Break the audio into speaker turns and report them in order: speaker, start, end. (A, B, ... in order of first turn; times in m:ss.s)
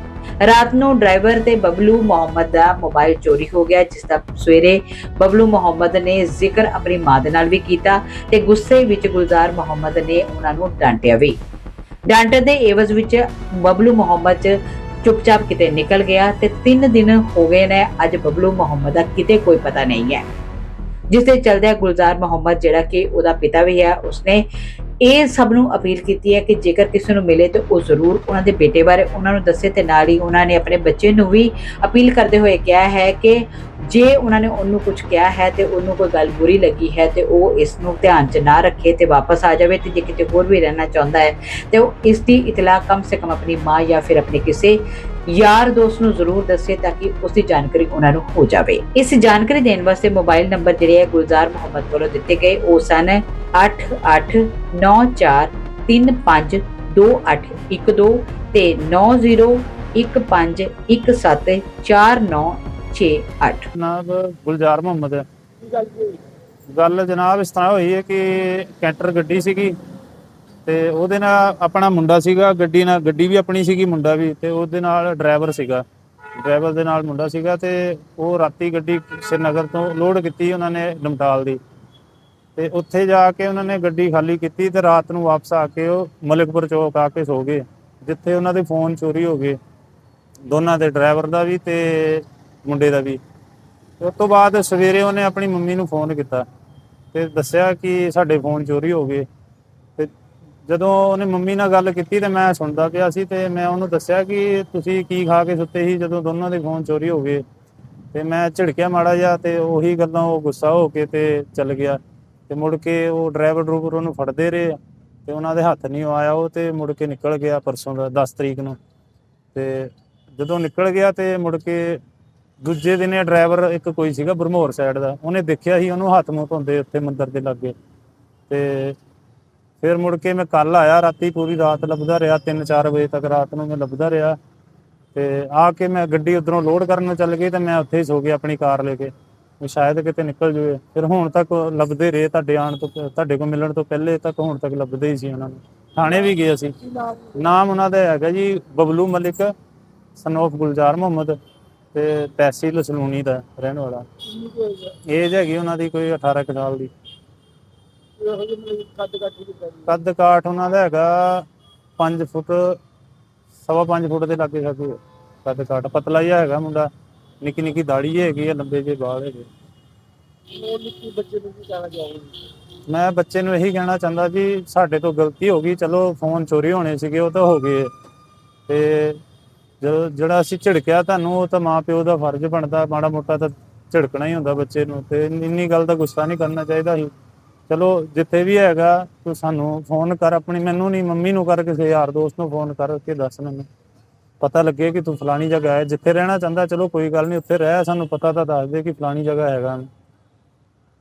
0:00.4-0:11.4 A
0:12.1-0:20.2 A
0:21.1-0:24.4 A
0:25.0-1:03.7 A
1:03.7-1:05.2 B
1:05.8-1:06.1 C
1:06.7-1:09.7 B
1:10.6-1:15.8 B
1:16.4-1:21.6 B
1:22.6-1:29.6 B
1:30.5-1:33.2 B
1:34.0-1:36.4 B
1:37.1-1:39.2 B
1:40.7-1:47.4 B
1:48.1-1:58.8 B
1:59.5-2:02.0 B
2:02.6-2:07.7 B
2:08.5-2:09.0 B
2:09.8-2:14.4 B
2:15.1-2:29.5 B
2:27.0-2:27.3 C
2:30.2-2:31.3 B
2:31.9-2:34.0 B
2:34.5-2:34.8 C
2:35.1-2:36.9 B
2:38.2-2:39.9 C
2:39.8-2:41.4 B
2:42.0-2:42.8 B
2:43.6-2:46.9 B
2:47.4-2:49.5 B
2:50.5-2:52.3 C
2:52.9-2:57.9 B
2:58.7-2:59.2 B
2:59.8-3:07.1 B
3:07.7-3:13.6 B
3:14.4-3:19.9 B